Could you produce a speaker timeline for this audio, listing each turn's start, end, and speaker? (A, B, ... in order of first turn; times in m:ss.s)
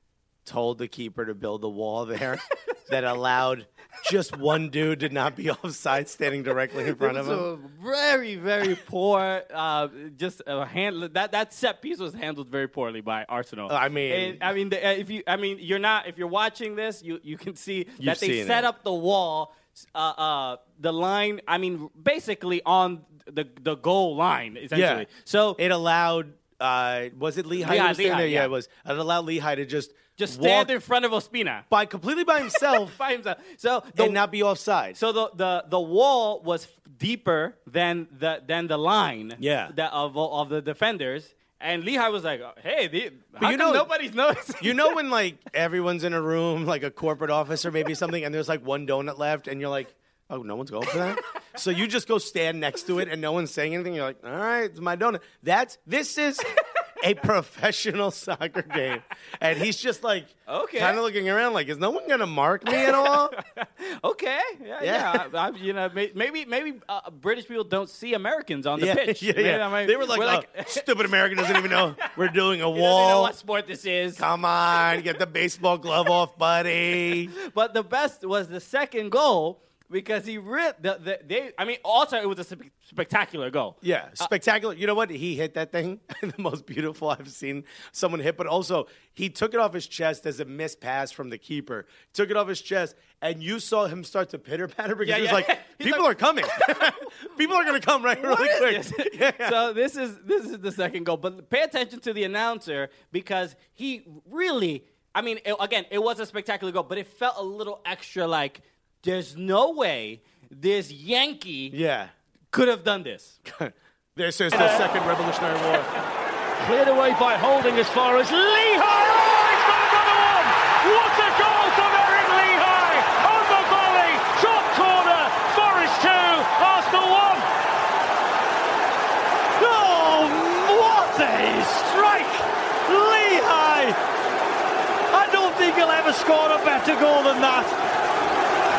0:00.4-0:07.5 A
0:06.9-0:25.6 B
0:13.7-0:14.4 A
0:18.0-0:18.7 A
0:24.7-0:30.7 A
0:27.6-0:28.5 B
0:30.2-0:31.6 B
0:31.7-0:33.0 A
0:32.5-0:34.2 B
0:33.9-0:35.0 A
0:34.9-0:45.0 B
0:39.4-0:39.7 A
0:43.4-0:43.9 A
0:44.6-1:03.4 A
1:00.5-1:01.0 B
1:02.7-1:10.9 B
1:04.8-1:05.3 A
1:08.8-1:13.3 A
1:11.4-1:12.2 B
1:12.7-1:14.2 B
1:14.2-1:17.3 A
1:17.4-1:24.3 B
1:23.8-1:39.6 A
1:35.0-1:37.1 B
1:38.2-1:51.8 B
1:51.7-1:52.1 A
1:52.5-1:53.4 B
1:53.4-1:55.9 A
1:54.5-1:54.8 B
1:56.6-2:07.4 C
2:09.6-2:14.0 C
2:15.1-2:17.8 C